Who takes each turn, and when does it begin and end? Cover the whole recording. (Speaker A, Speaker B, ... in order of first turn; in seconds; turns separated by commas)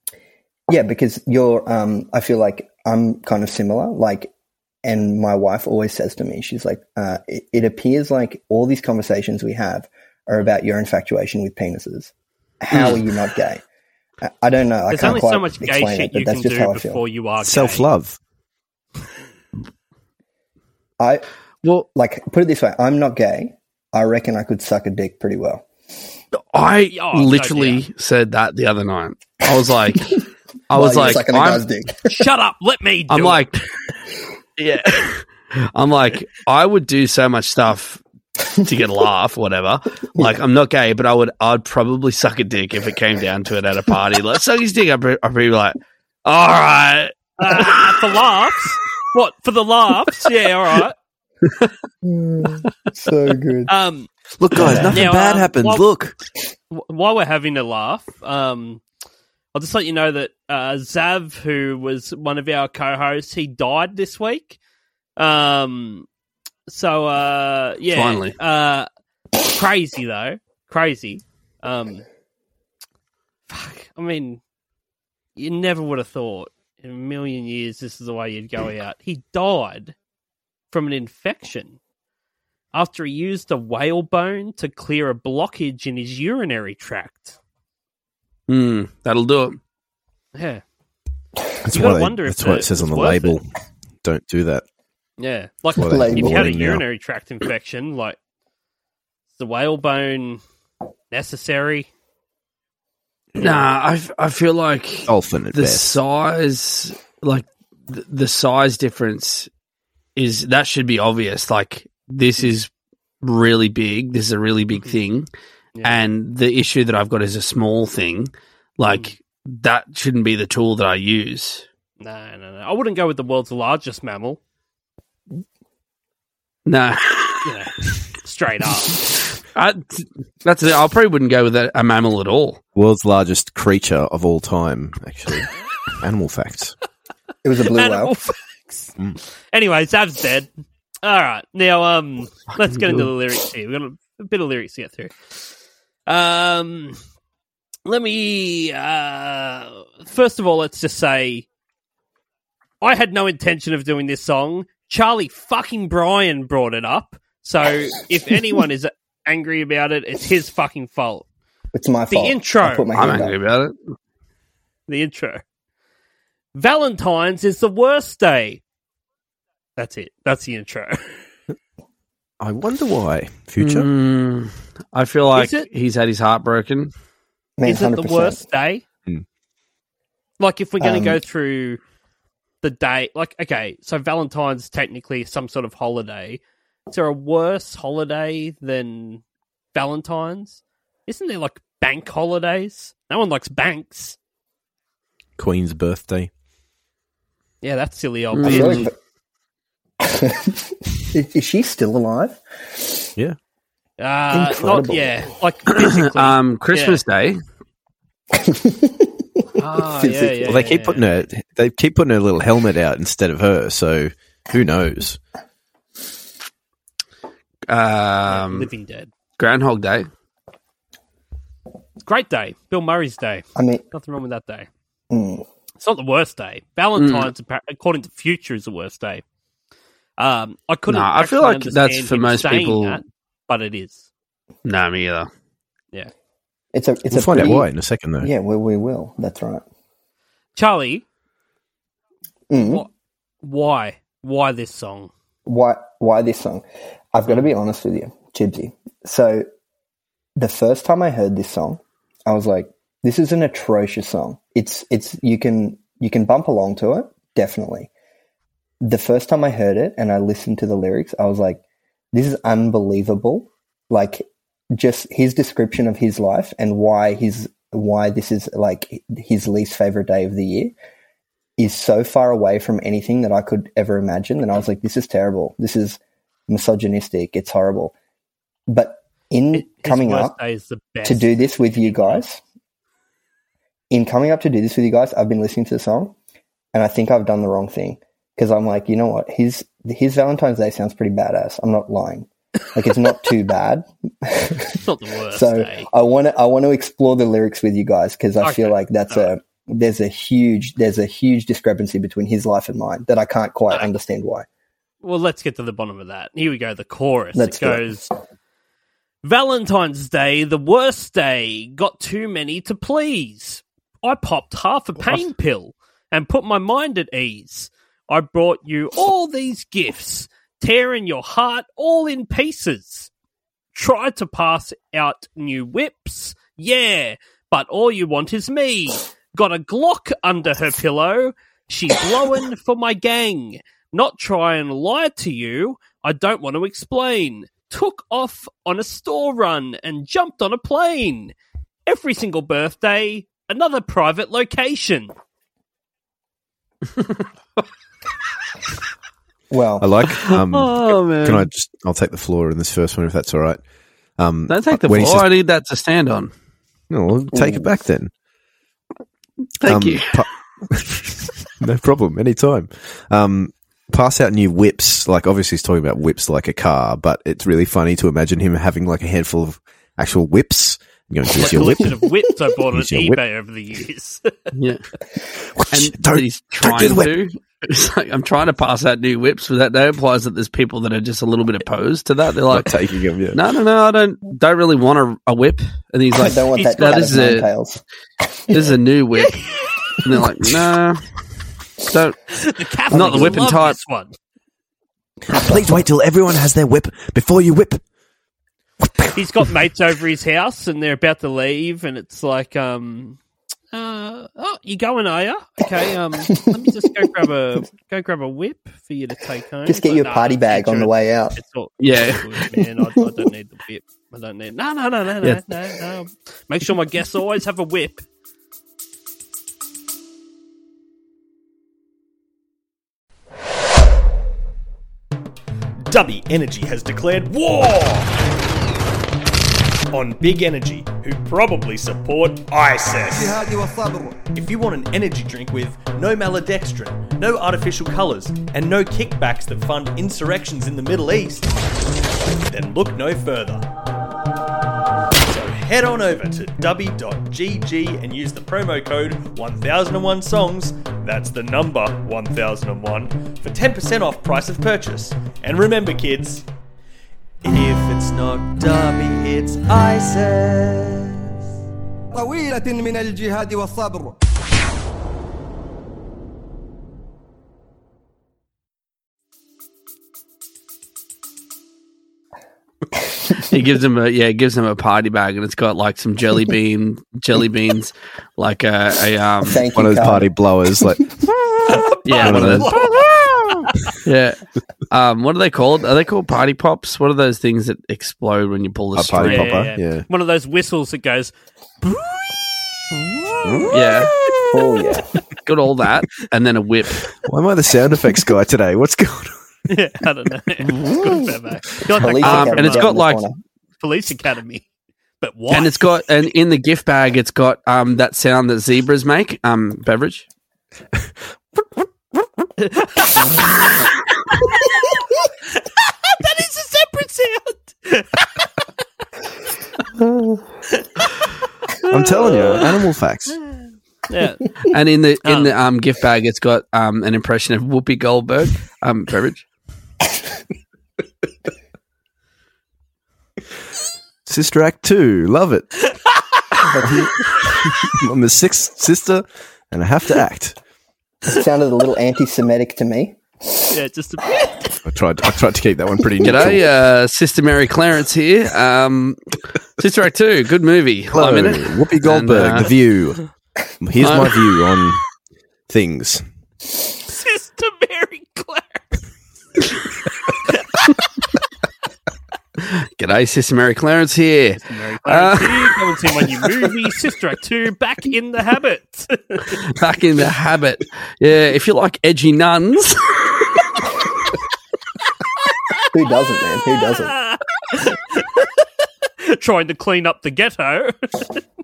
Speaker A: 0.7-4.3, Speaker A: 4.8-12.1, Speaker A: 12.6-13.6, Speaker B: 12.7-13.0, Speaker A: 14.2-17.0, Speaker C: 14.9-17.9, Speaker D: 17.4-18.2, Speaker A: 21.0-21.2, Speaker A: 21.9-25.7, Speaker B: 26.5-31.6, Speaker C: 26.9-27.9, Speaker A: 30.7-32.2, Speaker C: 32.1-33.5, Speaker B: 33.1-33.6, Speaker B: 34.6-38.0, Speaker B: 38.6-47.9, Speaker C: 47.4-51.0, Speaker A: 52.0-53.7, Speaker C: 53.7-54.1, Speaker D: 54.4-56.1, Speaker C: 54.9-55.9, Speaker C: 56.7-58.8, Speaker C: 59.5-64.6, Speaker C: 65.2-66.1, Speaker C: 66.7-68.9, Speaker B: 67.9-68.4, Speaker C: 69.4-72.0, Speaker C: 73.5-74.4, Speaker C: 75.4-80.0, Speaker C: 80.7-81.8, Speaker C: 82.7-87.4, Speaker B: 88.5-89.6, Speaker C: 90.3-90.6, Speaker D: 91.6-93.5, Speaker C: 91.7-93.4, Speaker D: 94.0-94.6, Speaker C: 95.2-98.2, Speaker D: 95.8-96.8, Speaker A: 95.8-96.6, Speaker C: 99.4-100.4, Speaker C: 101.1-101.9, Speaker B: 103.4-109.5, Speaker D: 105.1-106.0, Speaker B: 110.2-112.7, Speaker B: 113.2-115.3, Speaker C: 115.8-116.0, Speaker B: 115.8-121.7, Speaker C: 122.0-124.4, Speaker B: 126.7-127.5, Speaker C: 127.5-129.0, Speaker B: 129.5-132.6, Speaker D: 132.8-136.8, Speaker A: 137.4-138.2, Speaker C: 137.7-139.0, Speaker C: 139.5-140.5, Speaker C: 141.0-145.3, Speaker C: 146.1-147.0, Speaker C: 147.9-151.5, Speaker C: 152.8-161.3, Speaker A: 161.7-163.4, Speaker C: 162.1-162.9, Speaker B: 162.9-163.8, Speaker C: 164.9-165.4, Speaker C: 166.6-168.6, Speaker C: 169.8-171.2, Speaker D: 172.4-173.9, Speaker B: 173.6-176.9, Speaker C: 175.3-175.7, Speaker A: 177.6-178.4, Speaker C: 177.7-178.8, Speaker C: 180.4-181.8, Speaker A: 180.8-181.2, Speaker C: 182.6-189.2, Speaker C: 189.7-194.2, Speaker D: 195.4-196.3, Speaker C: 197.6-198.9, Speaker B: 198.3-198.9, Speaker A: 198.4-198.9, Speaker A: 200.0-203.1, Speaker C: 204.0-207.0, Speaker A: 204.3-205.1, Speaker B: 205.7-207.4, Speaker A: 208.3-210.7, Speaker C: 209.6-211.0, Speaker D: 210.5-215.2, Speaker B: 217.7-218.7, Speaker C: 218.3-219.1, Speaker B: 219.4-220.1, Speaker C: 222.1-224.7, Speaker A: 223.6-223.8, Speaker A: 225.1-225.5, Speaker C: 225.8-229.2, Speaker B: 227.0-227.3, Speaker C: 230.2-234.1, Speaker B: 230.9-233.0, Speaker B: 234.7-235.3, Speaker A: 236.7-239.6, Speaker D: 237.1-238.3, Speaker C: 240.6-241.1, Speaker A: 242.5-242.9, Speaker C: 242.6-242.9, Speaker C: 243.4-245.1, Speaker A: 245.5-249.4, Speaker A: 250.4-257.9, Speaker A: 258.8-261.6, Speaker A: 262.1-270.7, Speaker A: 271.6-277.9, Speaker A: 278.7-280.4, Speaker C: 279.5-282.2, Speaker A: 281.0-282.4, Speaker A: 283.9-286.1, Speaker A: 286.7-304.5, Speaker C: 294.8-295.9, Speaker C: 298.4-299.3, Speaker C: 305.0-308.1, Speaker A: 307.4-307.9, Speaker C: 309.2-323.1, Speaker C: 323.7-341.3, Speaker C: 341.9-345.1, Speaker A: 349.5-349.9, Speaker D: 349.8-353.6, Speaker B: 350.3-351.5, Speaker D: 354.2-355.3, Speaker B: 354.5-356.3, Speaker D: 356.9-358.1, Speaker A: 357.3-357.7, Speaker B: 359.6-360.2, Speaker D: 359.7-361.0, Speaker D: 361.6-372.0, Speaker C: 371.4-374.5, Speaker D: 372.7-373.2, Speaker B: 374.5-374.8, Speaker D: 375.5-377.1, Speaker B: 375.7-382.7, Speaker D: 382.5-383.4, Speaker B: 383.3-387.5, Speaker A: 386.1-387.8, Speaker C: 386.6-387.1, Speaker B: 388.5-389.4, Speaker B: 390.0-391.0, Speaker B: 391.8-392.2, Speaker C: 392.3-394.1, Speaker B: 392.9-393.8, Speaker D: 395.3-397.8, Speaker A: 395.3-395.7, Speaker C: 399.1-403.2, Speaker C: 403.7-418.1, Speaker A: 406.2-406.6, Speaker A: 409.7-411.4, Speaker B: 411.8-412.2, Speaker E: 425.9-428.1, Speaker E: 429.9-433.4, Speaker F: 433.1-434.2, Speaker E: 434.3-441.5, Speaker E: 442.5-443.7, Speaker E: 445.3-456.4, Speaker E: 457.4-461.3, Speaker F: 462.1-464.2, Speaker B: 473.4-479.6, Speaker A: 479.4-480.9, Speaker D: 479.7-483.5, Speaker C: 481.7-483.1, Speaker B: 482.1-482.8, Speaker B: 484.0-484.4, Speaker B: 484.9-489.6, Speaker D: 489.0-490.1, Speaker C: 489.2-493.8, Speaker D: 493.4-493.8, Speaker B: 493.7-494.1, Speaker A: 494.5-495.2, Speaker B: 495.4-497.1, Speaker D: 497.2-499.3, Speaker C: 499.7-502.9, Speaker A: 501.9-503.4, Speaker B: 502.2-503.2, Speaker C: 503.8-504.6, Speaker C: 505.2-505.8, Speaker B: 505.5-510.2, Speaker C: 512.6-513.5, Speaker C: 515.5-518.5, Speaker A: 520.0-520.4, Speaker C: 521.9-522.7, Speaker D: 521.9-523.5, Speaker C: 524.1-524.5, Speaker B: 524.7-529.5, Speaker C: 525.2-525.5, Speaker D: 534.3-535.9, Speaker A: 536.6-537.5, Speaker D: 536.9-540.6, Speaker A: 541.2-543.7, Speaker C: 543.7-544.8, Speaker D: 544.8-546.6, Speaker B: 546.2-549.2, Speaker B: 549.8-552.7, Speaker D: 551.1-555.0, Speaker B: 554.0-554.4, Speaker D: 555.7-556.2, Speaker C: 557.0-558.8, Speaker B: 562.6-566.1, Speaker C: 564.5-569.5, Speaker B: 569.7-573.6, Speaker A: 575.9-577.1, Speaker C: 577.1-578.7, Speaker C: 579.2-581.4